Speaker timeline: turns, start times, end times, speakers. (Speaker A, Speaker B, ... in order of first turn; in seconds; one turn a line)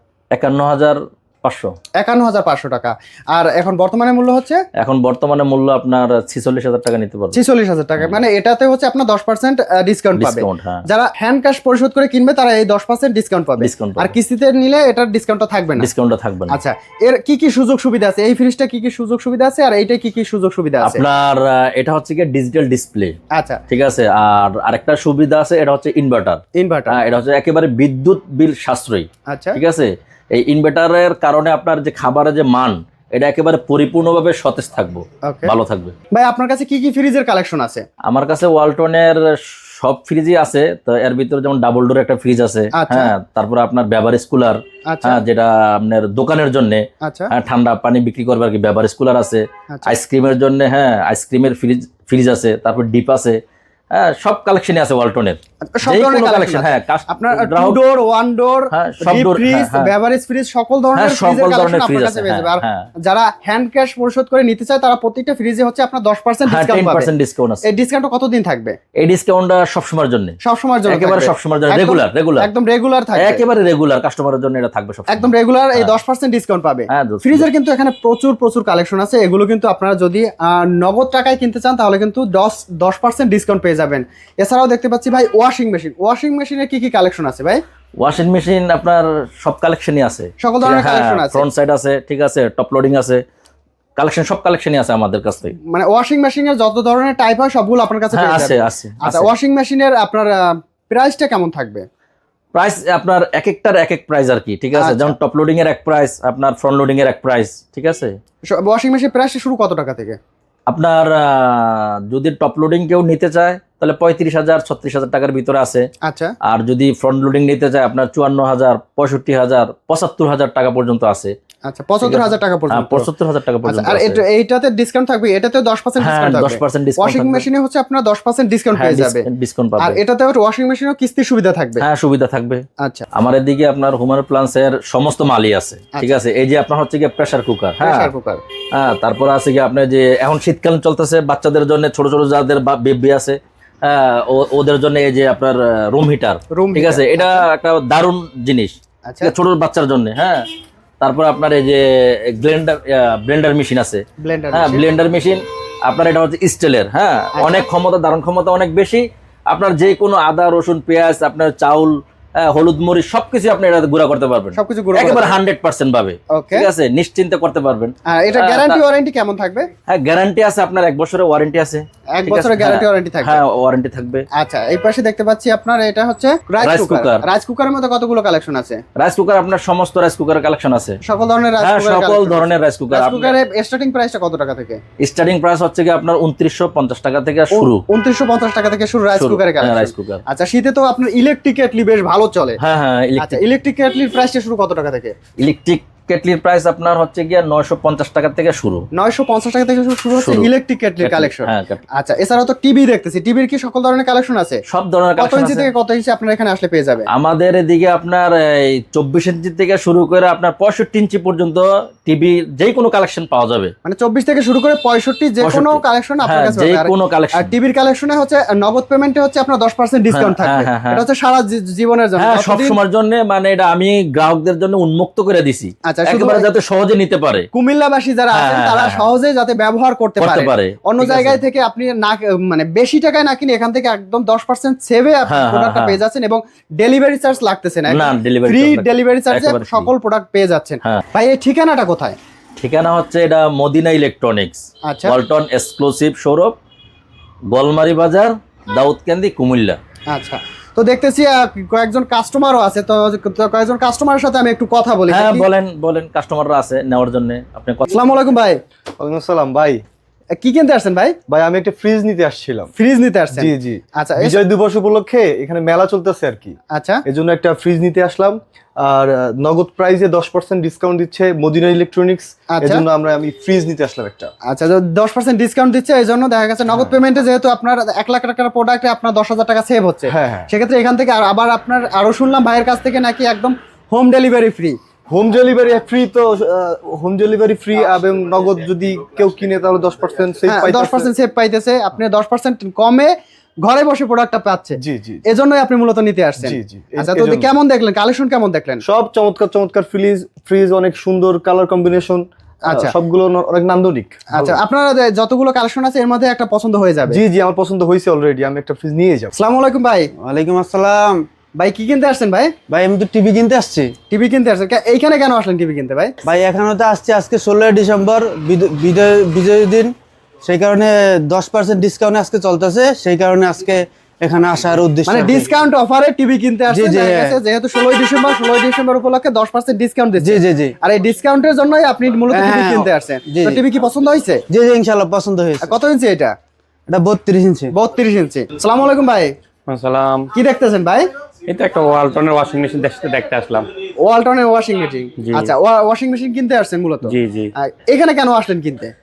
Speaker A: 0.3-1.7
Speaker B: 2.0-4.6
Speaker A: 4.8-7.4
Speaker B: 7.3-15.9
Speaker A: 10.2-10.8
Speaker A: 13.6-14.2
Speaker A: 15.8-16.6
Speaker B: 16.5-21.0
Speaker A: 20.8-23.1
Speaker B: 23.3-23.6
Speaker A: 23.7-35.9
Speaker B: 26.5-27.0
Speaker B: 29.3-29.6
Speaker B: 35.2-35.5
Speaker B: 36.1-37.9
Speaker A: 38.0-53.4
Speaker B: 42.7-43.1
Speaker B: 44.9-45.2
Speaker B: 47.0-47.3
Speaker B: 49.7-49.9
Speaker A: 53.9-57.8
Speaker B: 55.8-67.1
Speaker A: 58.7-59.9
Speaker A: 60.9-62.9
Speaker A: 66.5-67.6
Speaker B: 67.6-68.8
Speaker A: 69.0-70.3
Speaker B: 70.4-73.4
Speaker A: 70.9-72.5
Speaker A: 73.2-75.9
Speaker B: 75.1-87.6
Speaker A: 76.9-77.5
Speaker A: 88.0-93.2
Speaker B: 90.4-91.4
Speaker A: 94.0-95.5
Speaker B: 95.7-101.8
Speaker A: 98.1-99.3
Speaker A: 102.5-108.2
Speaker B: 104.7-105.2
Speaker B: 108.4-110.2
Speaker A: 110.7-115.9
Speaker B: 116.0-116.3
Speaker A: 116.4-121.3
Speaker B: 121.6-123.1
Speaker A: 122.0-124.2
Speaker B: 123.6-129.3
Speaker A: 126.0-127.5
Speaker A: 128.7-130.0
Speaker B: 129.8-131.8
Speaker A: 131.8-132.6
Speaker B: 132.8-133.1
Speaker A: 133.1-138.1
Speaker B: 137.8-138.4
Speaker A: 138.7-150.4
Speaker B: 146.5-147.5
Speaker B: 149.0-149.3
Speaker A: 151.0-168.8
Speaker B: 154.2-154.8
Speaker B: 157.3-157.7
Speaker B: 164.5-165.3
Speaker B: 166.3-166.7
Speaker B: 168.1-169.7
Speaker A: 169.9-174.2
Speaker B: 172.1-173.4
Speaker B: 174.3-178.8
Speaker A: 176.6-177.2
Speaker A: 179.0-181.0
Speaker B: 181.0-184.8
Speaker A: 181.6-183.4
Speaker A: 185.0-187.8
Speaker B: 187.5-192.6
Speaker A: 189.1-190.2
Speaker A: 192.6-193.4
Speaker B: 193.2-195.1
Speaker A: 195.4-198.8
Speaker B: 198.9-204.6
Speaker A: 200.1-200.5
Speaker A: 201.0-201.8
Speaker A: 204.7-205.7
Speaker B: 205.2-207.1
Speaker A: 207.1-213.7
Speaker B: 213.8-222.8
Speaker A: 215.4-217.5
Speaker A: 220.1-221.0
Speaker A: 222.2-227.5
Speaker B: 225.8-226.5
Speaker B: 227.5-242.2
Speaker A: 228.3-229.1
Speaker A: 230.2-231.4
Speaker A: 235.3-236.0
Speaker A: 237.9-239.9
Speaker A: 242.6-246.5
Speaker B: 244.9-245.2
Speaker A: 247.5-249.8
Speaker B: 250.1-255.5
Speaker A: 255.1-257.9
Speaker B: 257.9-258.6
Speaker C: 259.0-259.8
Speaker B: 260.4-261.2
Speaker C: 261.3-262.7
Speaker B: 262.8-264.4
Speaker C: 263.3-274.3
Speaker B: 266.7-267.0
Speaker B: 272.5-272.8
Speaker B: 274.5-284.8
Speaker C: 276.7-277.0
Speaker C: 280.1-280.5
Speaker C: 285.1-291.1
Speaker B: 290.5-293.1
Speaker B: 293.6-294.8
Speaker C: 294.8-295.2
Speaker B: 295.3-298.8
Speaker C: 296.4-297.5
Speaker C: 298.8-304.6
Speaker B: 302.7-302.9
Speaker B: 304.3-307.2
Speaker C: 307.1-309.3
Speaker B: 309.4-310.1
Speaker D: 310.2-311.2
Speaker B: 311.6-312.5
Speaker D: 312.7-313.9
Speaker B: 314.1-316.1
Speaker D: 316.2-325.5
Speaker B: 325.1-334.4
Speaker D: 326.7-327.4
Speaker D: 330.2-330.7
Speaker D: 332.3-333.6
Speaker D: 334.5-335.7
Speaker B: 335.6-336.3
Speaker D: 336.9-337.7
Speaker B: 337.7-339.3
Speaker E: 339.7-340.3
Speaker B: 340.3-341.1
Speaker E: 341.5-343.7
Speaker B: 344.0-348.9
Speaker E: 345.2-345.5
Speaker E: 347.0-347.5